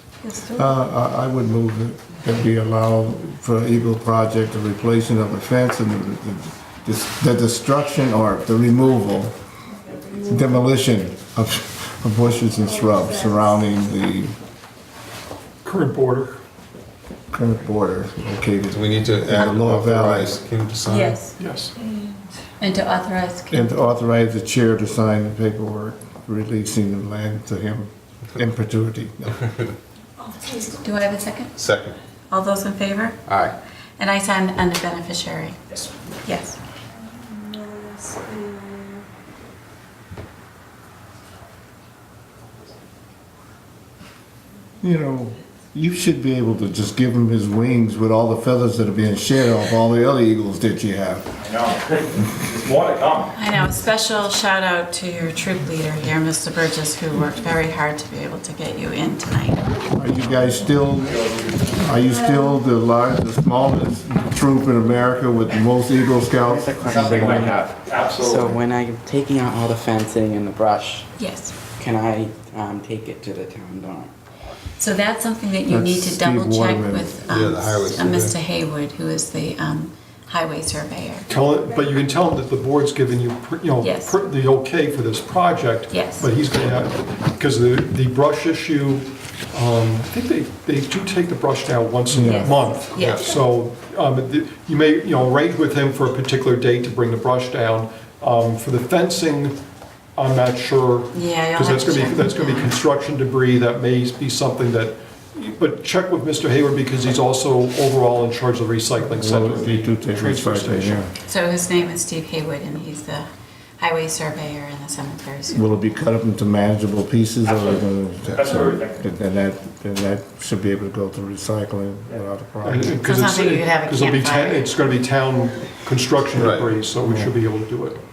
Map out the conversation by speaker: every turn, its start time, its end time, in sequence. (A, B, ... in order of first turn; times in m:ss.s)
0:00.2-0:00.8 A
0:00.5-0:09.3 B
0:10.2-0:14.3 B
0:15.6-0:16.4 C
0:17.3-0:20.4 B
0:18.7-0:21.2 D
0:20.9-0:21.3 A
0:21.4-0:21.7 C
0:22.6-0:23.7 A
0:23.5-0:29.4 B
0:30.8-0:31.5 A
0:31.6-0:32.0 D
0:32.3-0:33.2 A
0:33.3-0:33.5 D
0:34.0-0:35.6 A
0:36.2-0:36.6 A
0:44.8-0:51.2 B
0:51.4-0:53.4 E
0:53.4-0:59.8 A
1:00.0-1:01.2 B
1:00.1-1:02.0 E
1:01.8-1:07.5 B
1:06.4-1:11.1 F
1:06.8-1:08.6 E
1:11.2-1:11.5 A
1:11.8-1:14.1 F
1:14.8-1:21.3 A
1:15.7-1:17.1 B
1:17.3-1:18.3 D
1:21.3-1:39.6 C
1:23.8-1:24.2 A
1:25.9-1:26.3 A
1:32.1-1:32.5 B
1:32.2-1:33.4 A
1:32.9-1:33.2 D
1:40.2-1:51.1 C
1:41.1-1:42.7 A
1:49.0-1:51.1 B
1:51.3-1:53.3 A
1:53.8-1:55.8 A
1:55.5-2:03.0 B
1:57.4-1:59.0 E
2:02.6-2:08.0 C
2:03.0-2:04.7 A
2:06.3-2:06.7 D
2:07.0-2:07.3 B